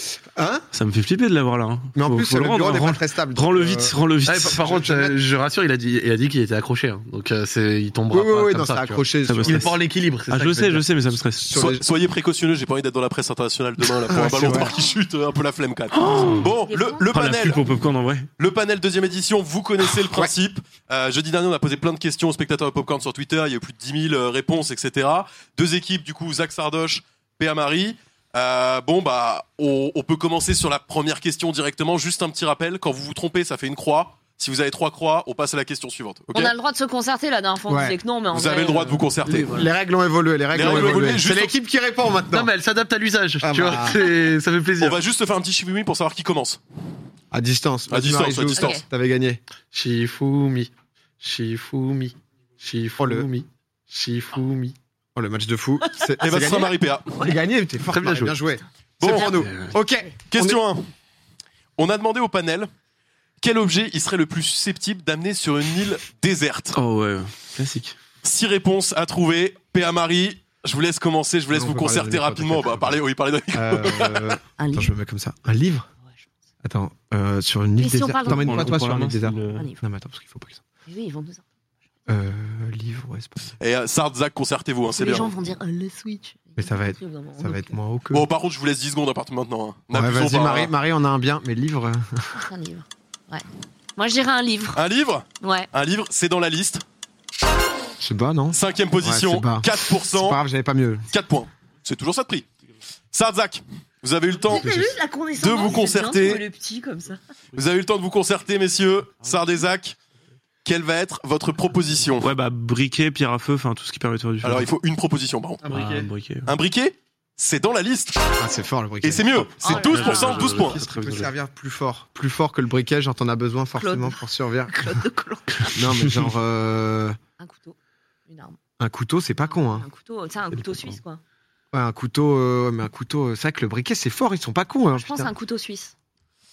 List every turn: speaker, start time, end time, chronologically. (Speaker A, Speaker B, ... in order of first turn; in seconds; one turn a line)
Speaker A: 0.3-0.7
Speaker B: 0.7-4.6
Speaker A: 1.9-4.0
Speaker C: 4.2-10.9
Speaker A: 4.6-5.2
Speaker A: 8.1-9.7
Speaker B: 9.2-9.8
Speaker B: 10.3-11.6
Speaker A: 11.3-11.8
Speaker D: 11.5-17.6
Speaker A: 14.1-14.8
Speaker E: 14.6-14.9
Speaker B: 15.9-16.5
Speaker E: 16.4-17.1
Speaker B: 17.1-18.3
Speaker D: 18.4-36.5
Speaker A: 19.8-20.3
Speaker E: 36.3-39.0
Speaker A: 37.7-38.0
Speaker D: 38.3-39.7
Speaker C: 39.3-39.5
Speaker A: 39.3-42.5
Speaker D: 40.5-41.5
Speaker C: 42.3-45.0
Speaker A: 43.4-44.1
Speaker D: 44.8-46.6
Speaker A: 47.3-49.4
Speaker D: 47.9-48.8
Speaker E: 48.6-48.8
Speaker C: 49.7-54.8
Speaker A: 53.0-53.3
Speaker A: 55.1-60.6
Speaker D: 56.2-57.2
Speaker C: 57.9-58.4
Speaker D: 59.0-59.3
Speaker B: 59.3-59.7
Speaker D: 60.3-60.9
Speaker D: 61.8-62.7
Speaker D: 63.4-66.8
Speaker B: 66.7-68.0
Speaker D: 68.2-74.4
Speaker A: 71.5-73.0
Speaker A: 73.5-75.9
Speaker E: 74.6-74.9
Speaker A: 76.6-80.6
Speaker E: 77.8-78.7
Speaker B: 78.2-79.7
Speaker E: 79.5-79.8
Speaker E: 80.9-81.4
Speaker A: 82.1-83.5
Speaker D: 83.6-85.3
Speaker E: 85.0-87.8
Speaker A: 86.6-88.3
Speaker D: 88.1-90.7
Speaker A: 89.9-92.5
Speaker E: 92.3-93.5
Speaker E: 94.0-94.8
Speaker D: 94.8-96.8
Speaker E: 95.4-95.7
Speaker A: 98.0-101.1
Speaker D: 98.5-100.4
Speaker D: 101.1-102.5
Speaker D: 103.1-106.4
Speaker E: 104.5-107.2
Speaker A: 104.5-105.0
Speaker D: 107.5-110.0
Speaker D: 110.7-112.3
Speaker B: 112.2-114.7
Speaker D: 114.4-115.6
Speaker C: 115.6-116.1
Speaker B: 115.7-116.5
Speaker D: 116.5-118.2
Speaker A: 118.4-119.3
Speaker D: 119.0-120.8
Speaker B: 119.3-121.3
Speaker E: 119.6-120.5
Speaker A: 120.4-125.0
Speaker E: 123.8-124.2
Speaker E: 124.7-125.9
Speaker A: 125.7-127.2
Speaker E: 127.4-127.8
Speaker E: 128.3-128.6
Speaker A: 128.8-129.9
Speaker E: 129.4-131.2
Speaker A: 131.7-135.3
Speaker E: 134.9-135.9